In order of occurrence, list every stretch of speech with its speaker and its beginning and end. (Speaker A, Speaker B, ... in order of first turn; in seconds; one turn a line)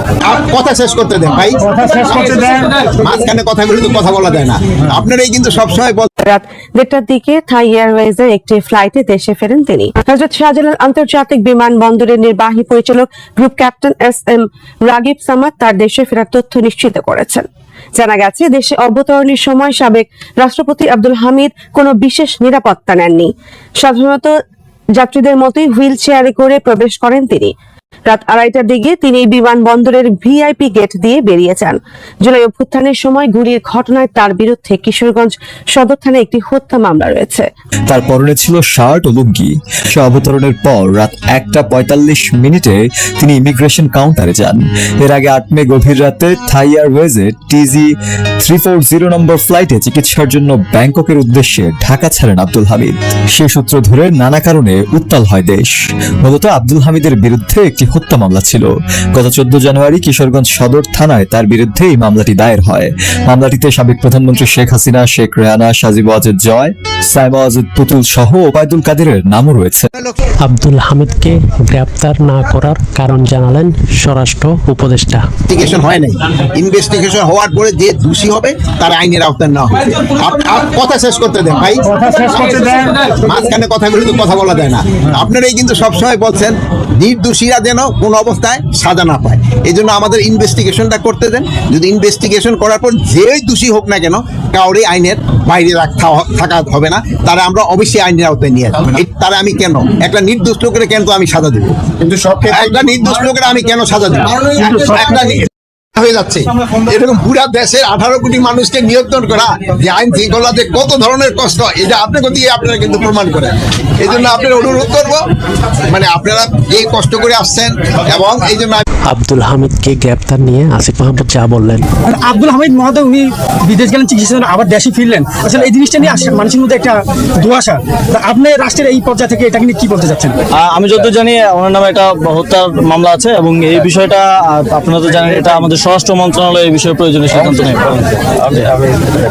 Speaker A: 0.2-6.1
Speaker B: 6.2-24.4
Speaker B: 24.9-27.5
Speaker B: 28.1-37.5
Speaker C: 37.9-69.9
Speaker A: 69.9-70.2
Speaker D: 70.4-75.2
Speaker A: 75.5-115.2
Speaker A: 115.9-118.8
Speaker D: 119.1-121.8
Speaker E: 122.1-130.3
Speaker F: 130.5-139.1